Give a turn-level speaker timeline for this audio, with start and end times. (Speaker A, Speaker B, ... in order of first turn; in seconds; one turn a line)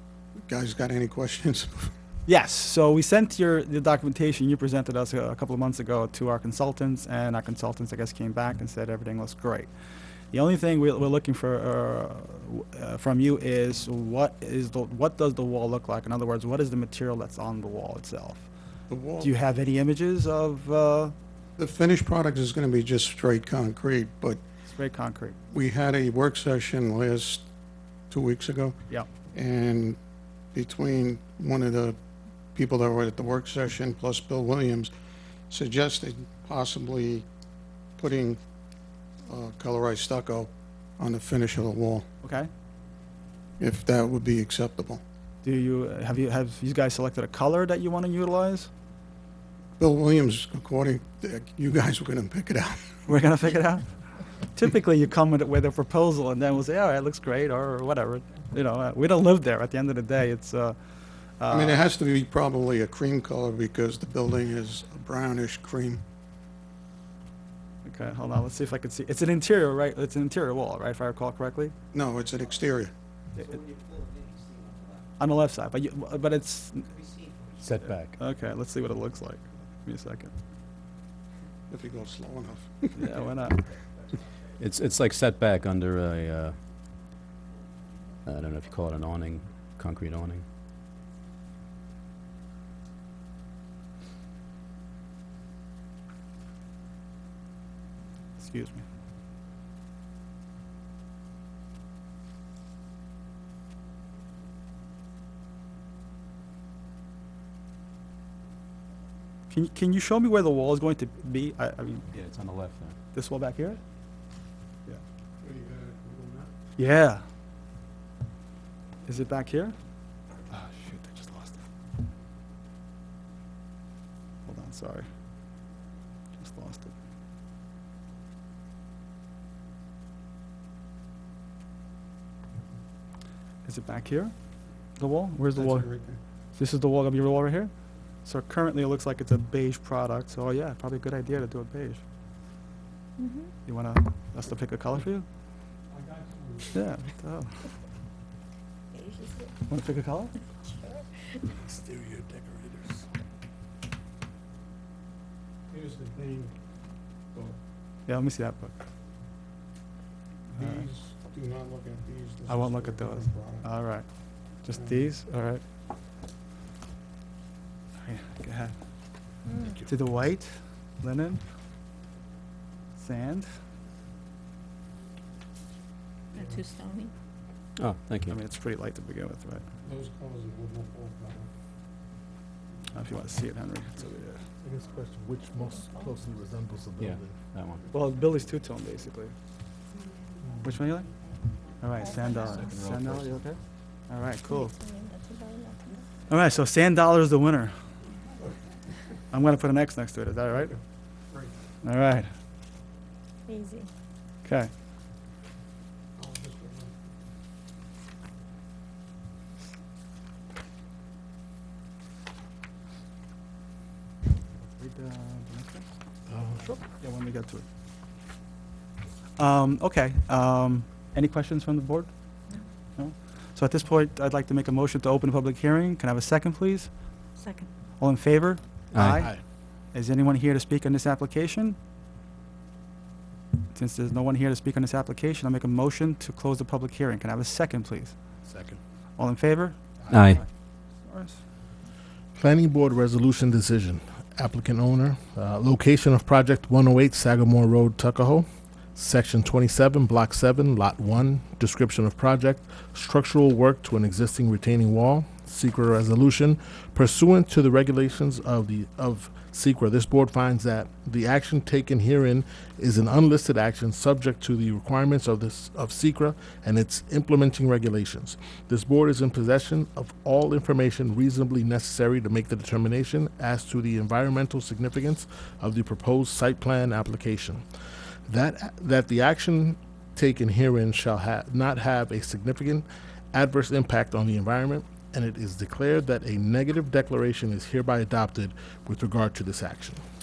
Speaker A: 0.4-1.9
Speaker B: 2.3-9.7
Speaker B: 10.3-18.4
Speaker A: 18.9-19.3
Speaker B: 19.2-21.1
Speaker A: 21.6-24.4
Speaker B: 24.7-25.4
Speaker A: 25.5-27.4
Speaker A: 28.1-28.8
Speaker A: 29.3-30.0
Speaker A: 30.5-32.0
Speaker A: 32.5-34.9
Speaker A: 35.5-37.3
Speaker A: 38.0-38.4
Speaker A: 39.3-42.0
Speaker B: 42.2-42.5
Speaker A: 43.6-45.0
Speaker B: 45.4-48.7
Speaker A: 49.8-53.0
Speaker B: 53.1-53.9
Speaker B: 54.4-60.8
Speaker B: 61.4-61.8
Speaker A: 61.5-66.0
Speaker B: 67.8-71.7
Speaker A: 71.9-72.9
Speaker B: 75.2-77.1
Speaker C: 77.6-78.2
Speaker B: 77.8-80.3
Speaker A: 81.7-83.1
Speaker B: 83.0-83.6
Speaker C: 84.6-86.5
Speaker C: 88.2-90.4
Speaker B: 98.4-98.8
Speaker B: 109.5-112.0
Speaker C: 112.1-113.0
Speaker B: 113.1-113.8
Speaker A: 115.4-116.5
Speaker B: 116.8-117.2
Speaker B: 119.0-119.8
Speaker B: 120.5-121.6
Speaker B: 124.5-125.1
Speaker B: 126.4-126.9
Speaker B: 133.6-134.3
Speaker B: 135.0-135.9
Speaker A: 135.5-136.2
Speaker B: 136.6-137.7
Speaker B: 138.2-142.0
Speaker D: 143.2-143.5
Speaker B: 143.7-145.2
Speaker A: 145.9-146.7
Speaker B: 146.7-147.5
Speaker D: 148.9-149.5
Speaker B: 149.7-150.3
Speaker D: 150.7-151.0
Speaker E: 151.5-153.1
Speaker A: 155.7-156.5
Speaker B: 158.1-158.7
Speaker A: 160.5-163.7
Speaker B: 160.5-160.8
Speaker B: 162.5-164.1
Speaker B: 164.6-165.6
Speaker A: 164.7-165.1
Speaker B: 168.0-168.7
Speaker D: 169.5-169.8
Speaker E: 169.6-169.9
Speaker B: 169.8-171.4
Speaker B: 173.0-173.5
Speaker D: 176.3-177.1
Speaker C: 177.8-178.4
Speaker B: 178.3-179.6
Speaker A: 179.8-181.5
Speaker B: 182.9-184.4
Speaker E: 184.6-187.3
Speaker D: 185.7-186.0
Speaker C: 187.0-187.9
Speaker B: 187.9-189.3
Speaker B: 190.6-191.1
Speaker B: 191.8-193.6
Speaker D: 192.0-192.7
Speaker C: 192.2-193.4
Speaker B: 194.1-194.7
Speaker D: 194.4-196.0
Speaker B: 196.3-197.7
Speaker B: 199.3-200.8
Speaker B: 201.8-202.3
Speaker D: 203.5-203.9
Speaker B: 204.4-204.7
Speaker A: 206.2-206.9
Speaker B: 214.6-215.8
Speaker E: 216.3-216.8
Speaker B: 216.8-217.6
Speaker B: 219.4-222.1
Speaker B: 223.0-226.9
Speaker D: 227.4-227.7
Speaker B: 228.0-229.4
Speaker C: 228.9-229.3
Speaker E: 229.1-229.4
Speaker B: 229.9-231.8
Speaker B: 233.7-238.1
Speaker E: 238.4-238.8
Speaker B: 239.2-240.5
Speaker C: 240.1-240.4
Speaker B: 241.0-241.4
Speaker E: 242.3-277.6
Speaker E: 278.3-290.0